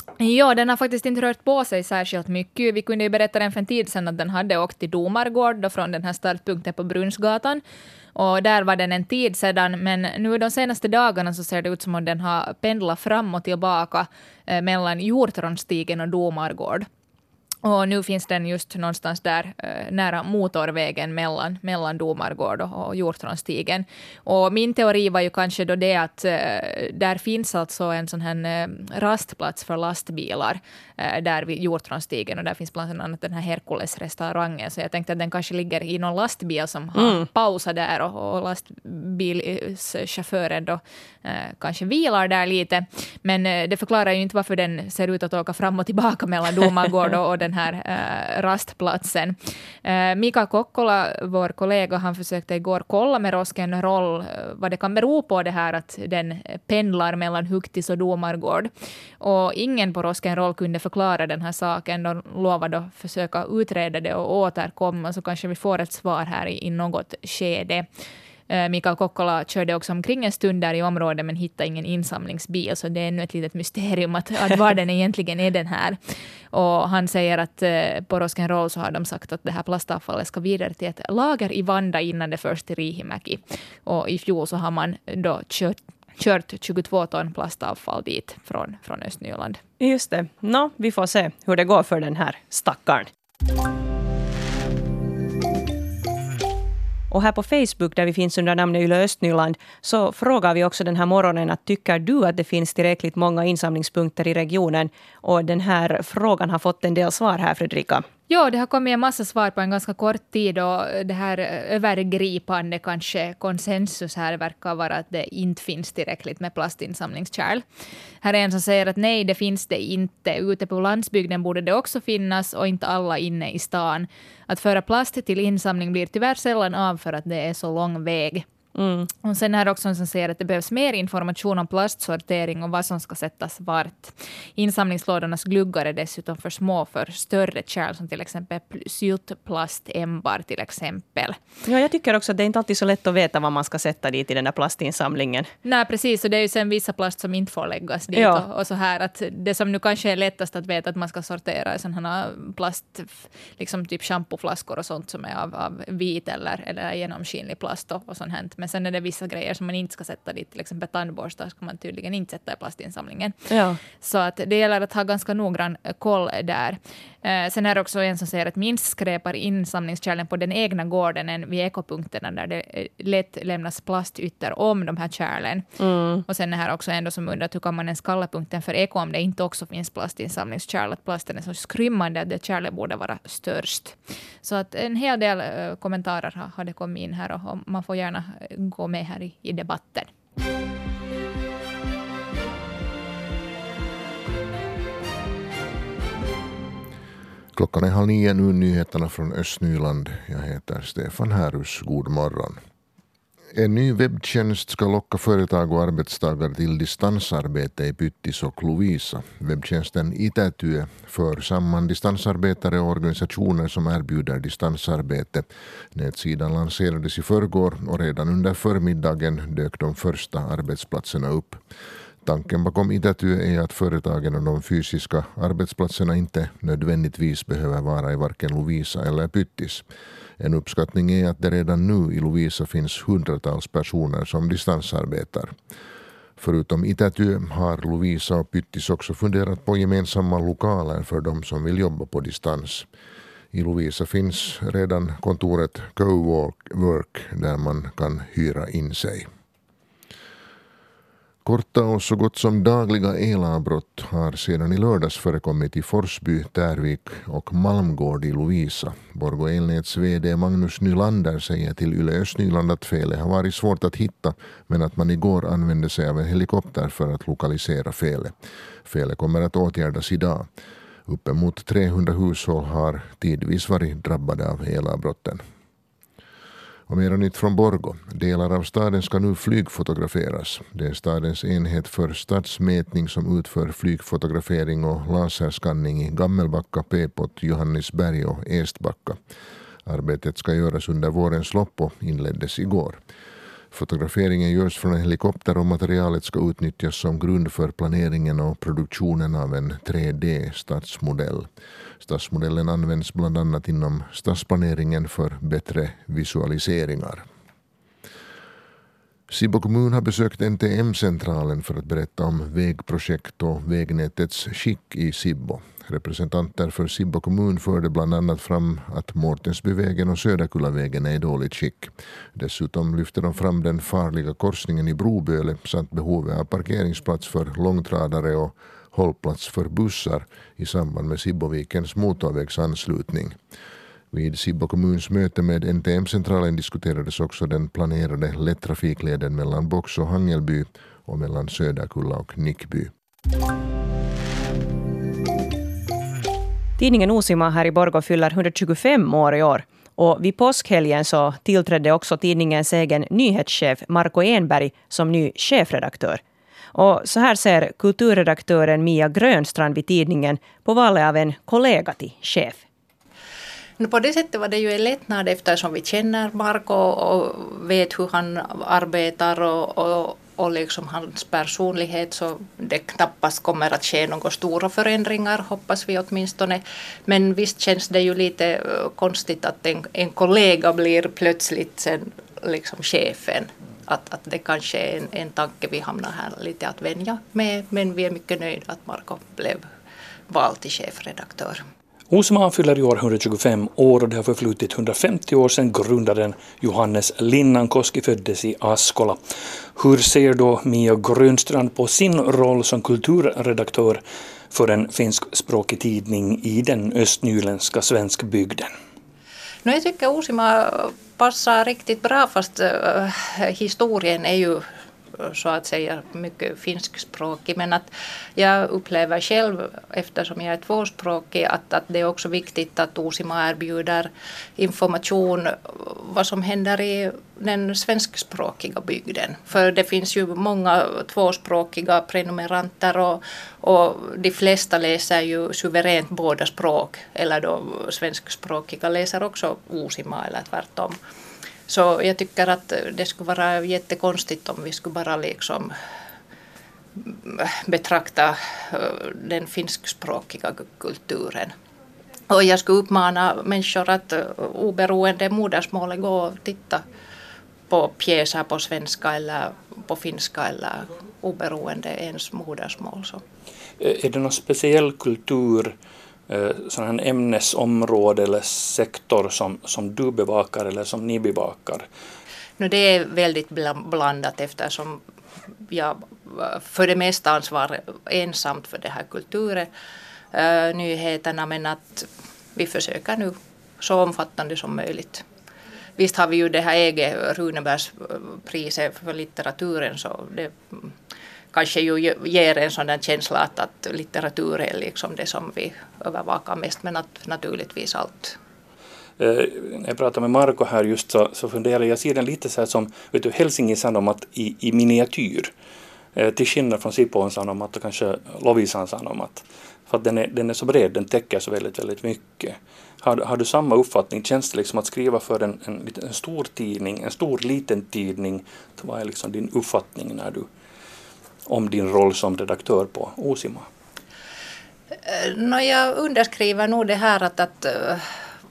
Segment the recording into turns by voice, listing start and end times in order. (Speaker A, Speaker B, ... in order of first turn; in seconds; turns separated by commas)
Speaker A: 0.2-7.6, Speaker A: 8.1-16.9, Speaker A: 17.6-58.7, Speaker B: 37.0-37.2, Speaker A: 59.2-67.9, Speaker A: 68.5-76.0, Speaker A: 76.5-89.6, Speaker B: 89.8-93.1, Speaker B: 97.1-108.0, Speaker A: 108.3-117.6, Speaker A: 118.2-128.4, Speaker B: 128.8-129.1, Speaker A: 129.2-141.3, Speaker B: 141.7-145.5, Speaker A: 145.6-163.3, Speaker B: 148.1-148.4, Speaker B: 163.5-163.8, Speaker A: 163.9-175.7, Speaker B: 175.8-176.2, Speaker A: 176.3-190.1, Speaker C: 197.5-202.6, Speaker C: 203.5-221.6, Speaker C: 222.2-229.8, Speaker C: 230.4-235.5, Speaker C: 236.4-242.9, Speaker C: 243.5-249.3, Speaker C: 251.4-268.3, Speaker C: 268.9-270.5, Speaker C: 271.1-275.4, Speaker C: 276.9-289.2, Speaker C: 289.9-293.0, Speaker C: 293.7-301.5, Speaker C: 302.0-307.2, Speaker C: 309.3-333.4, Speaker C: 334.1-342.9, Speaker B: 346.8-356.2, Speaker B: 356.7-362.6, Speaker D: 363.8-389.6, Speaker D: 390.3-391.6, Speaker E: 392.1-399.2, Speaker E: 399.8-404.0, Speaker E: 404.5-408.7, Speaker D: 409.6-414.6, Speaker D: 415.2-441.0, Speaker D: 441.7-445.7, Speaker D: 446.9-451.5, Speaker D: 452.3-456.8, Speaker D: 457.7-463.2, Speaker E: 463.8-465.7, Speaker E: 466.3-471.9, Speaker D: 472.6-475.0, Speaker D: 475.7-479.7, Speaker D: 480.3-485.2, Speaker D: 486.0-490.9, Speaker D: 491.5-498.3, Speaker E: 499.2-505.5, Speaker E: 506.1-520.5, Speaker E: 521.5-523.7, Speaker D: 525.0-528.0